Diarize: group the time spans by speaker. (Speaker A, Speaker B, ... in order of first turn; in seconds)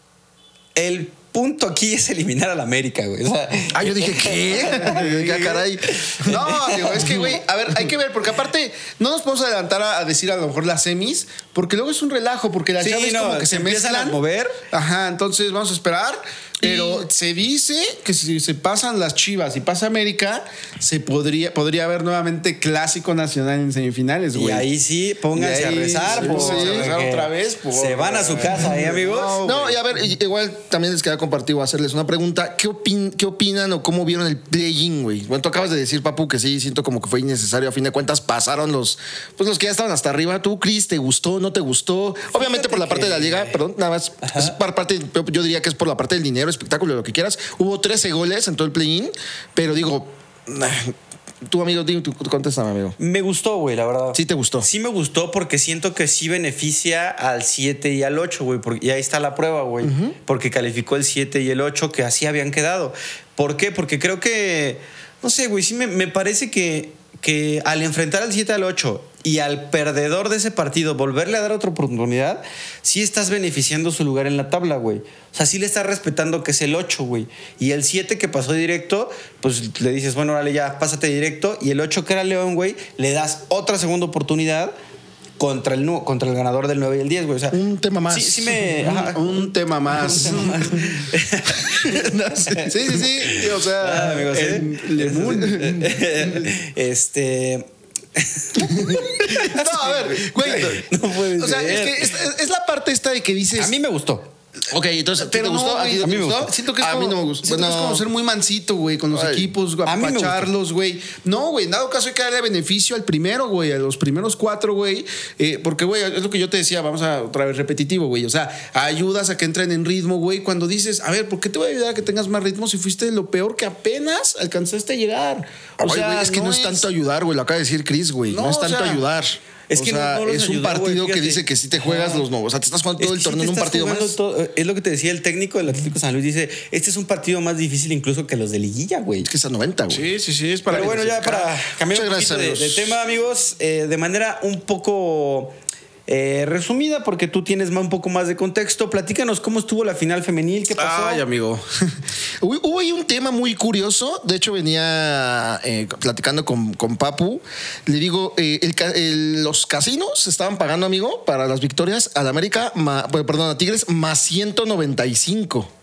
Speaker A: 0.7-7.3, 12.8-14.6, 24.3-29.7, 42.3-43.6, 44.2-44.5, 53.0-84.7, 85.4-102.2, 103.5-104.3, 106.0-106.5, 109.8-110.5, 129.7-132.2, 133.0-139.3, 140.7-145.5, 146.1-151.2
Speaker B: 3.7-6.1, 16.6-17.1, 26.1-26.9, 29.1-53.0, 54.1-54.7, 59.8-60.1, 87.5-88.6, 91.7-93.0, 99.0-100.7, 104.7-108.0, 109.1-109.5, 125.8-134.2, 139.2-140.1, 141.9-142.9, 152.4-165.7
Speaker C: 6.2-14.2, 14.7-24.7, 25.3-29.7, 88.8-91.1, 92.7-96.5, 98.8-100.8, 101.4-103.7, 105.2-126.9, 128.3-129.0, 139.9-141.5, 150.8-151.6